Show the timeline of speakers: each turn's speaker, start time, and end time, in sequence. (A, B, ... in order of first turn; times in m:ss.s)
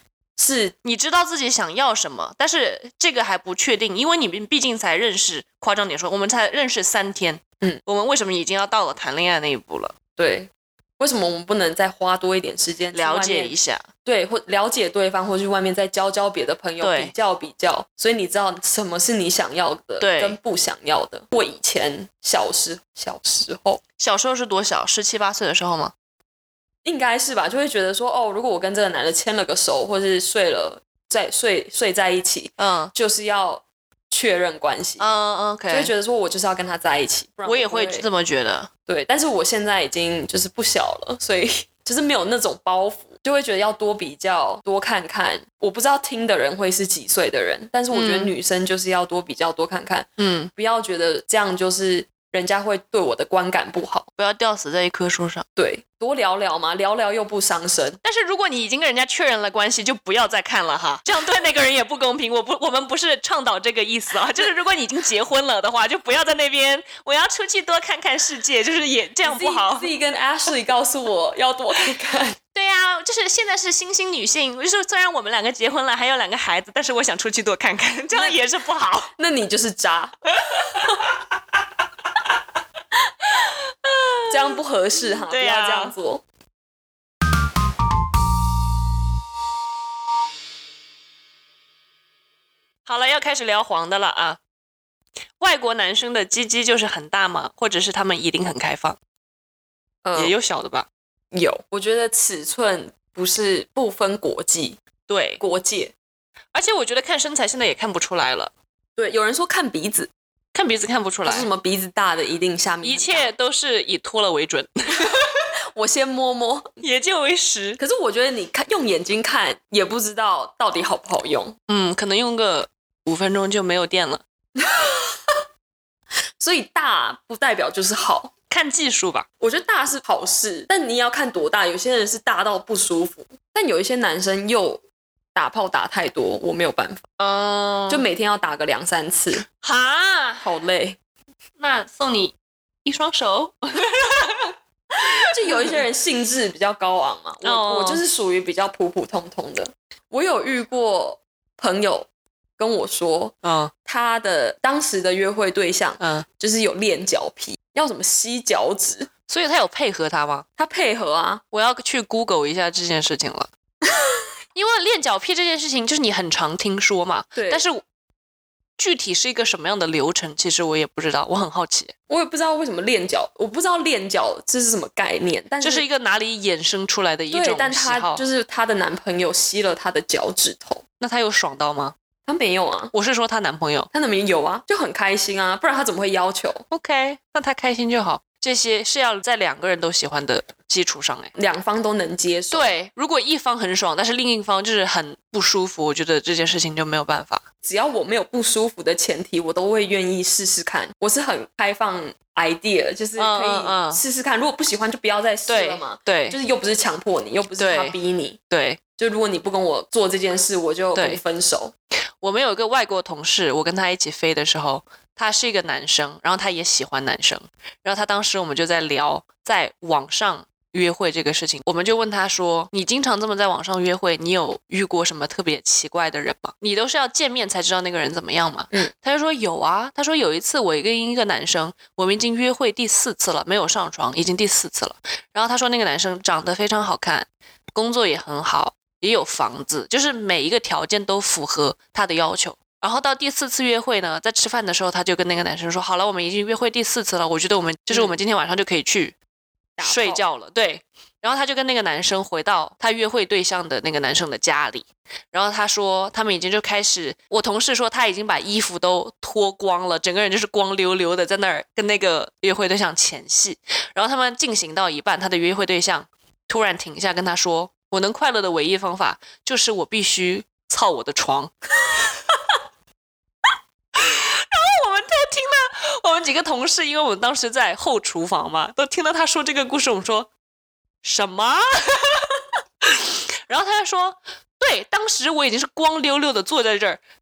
0:00.4-0:00.7 A
0:00.8-0:09.9 B
0:10.2-0:13.5 A
0:12.9-0:13.8 B
0:14.0-0:23.8 A
0:16.8-0:17.1 B
0:20.0-0:20.4 B
0:24.0-0:25.9 B
0:26.8-0:35.1 A
0:32.6-0:32.9 B
0:35.0-0:35.9 B
0:35.7-0:38.0 A
0:37.4-0:38.7 B
0:38.9-0:54.1 A
0:47.9-0:48.3 B
0:50.2-0:50.5 B
0:54.2-0:55.4 B
0:55.6-0:58.0 A
0:58.0-1:09.9 B
1:09.2-1:12.4 A
1:12.5-1:19.1 B
1:18.1-1:18.4 A
1:19.2-1:20.7 A
1:23.8-1:24.6 B
1:24.3-1:26.2 A
1:25.2-1:25.9 B
1:32.8-1:34.4 B
1:35.4-1:39.0 B
1:40.0-1:40.3 A
1:40.2-1:40.9 B
1:41.3-1:44.8 A
1:45.1-1:45.4 B
1:45.4-1:45.9 A
1:46.5-1:48.5 B
1:49.0-1:50.1 A
1:50.5-1:51.5 B
1:51.2-1:53.3 A
1:52.8-1:55.3 B
1:55.7-1:56.7 A
1:56.8-1:57.8 B
1:57.8-2:01.6 A
2:01.7-2:04.2 B
2:04.6-2:05.2 A
2:06.4-2:08.3 A
2:08.5-2:09.2 B
2:09.4-2:14.8 A
2:15.3-2:17.0 A
2:17.2-2:18.1 B
2:17.9-2:19.4 A
2:19.6-2:20.5 B
2:20.4-2:21.0 A
2:21.6-2:25.8 B
2:25.3-2:33.3 A
2:27.4-2:28.0 B
2:33.4-2:33.7 B
2:33.8-2:39.1 A
2:36.0-2:36.2 B
2:39.3-2:40.4 B
2:40.6-2:41.4 A
2:41.5-2:43.5 B
2:43.9-2:44.2 A
2:44.5-2:47.8 B
2:47.4-2:47.6 A
2:48.8-2:51.9 B
2:52.1-2:55.8 A
2:55.6-2:58.2 B
2:57.3-3:00.8 A
3:01.0-3:01.9 B
3:02.3-3:02.9 A
3:02.9-3:03.9 B
3:03.9-3:06.6 A
3:06.7-3:11.3 B
3:11.4-3:12.7 A
3:12.5-3:17.4 B
3:17.6-3:28.4 A
3:23.1-3:24.0 B
3:25.5-3:26.4 B
3:27.6-3:28.0 B
3:28.5-3:28.8 B
3:29.0-3:31.7 A
3:30.9-3:31.2 B
3:32.2-4:09.1 B
4:09.8-4:10.2 A
4:09.8-4:32.1 B
4:33.9-4:40.3 B
4:41.0-4:47.0 B